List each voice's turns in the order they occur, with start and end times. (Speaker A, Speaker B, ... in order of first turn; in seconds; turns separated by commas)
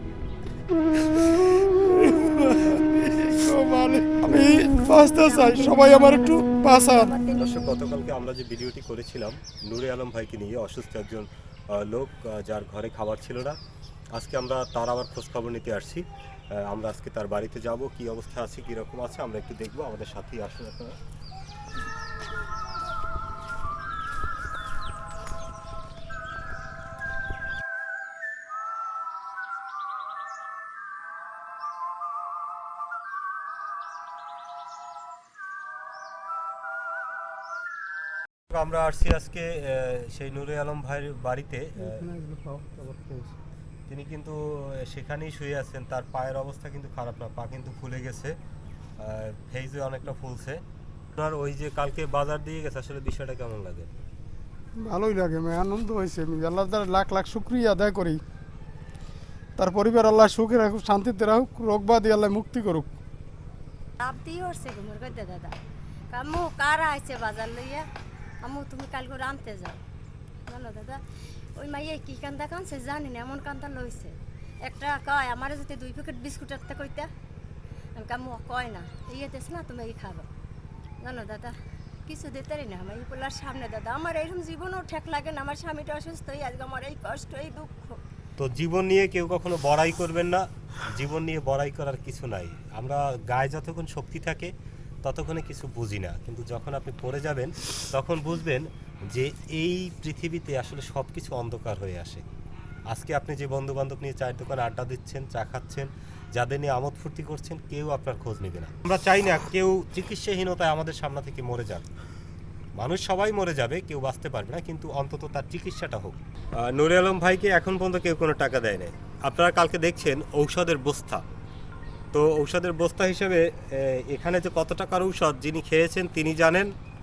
Speaker A: 1.0-7.1, Speaker B: 4.9-7.5, Speaker C: 7.4-13.6, Speaker C: 14.2-21.0, Speaker C: 38.5-42.1, Speaker A: 41.9-43.3, Speaker C: 43.9-48.4, Speaker C: 49.0-50.6, Speaker C: 51.1-53.9, Speaker A: 54.8-58.2, Speaker A: 59.6-62.9, Speaker B: 64.0-65.6, Speaker B: 66.1-67.9, Speaker B: 68.4-69.8, Speaker B: 70.5-71.0, Speaker B: 71.6-77.1, Speaker B: 78.0-80.3, Speaker B: 81.0-88.0, Speaker C: 88.4-94.5, Speaker C: 95.0-102.2, Speaker C: 102.9-111.8, Speaker C: 112.8-121.2, Speaker C: 122.1-126.7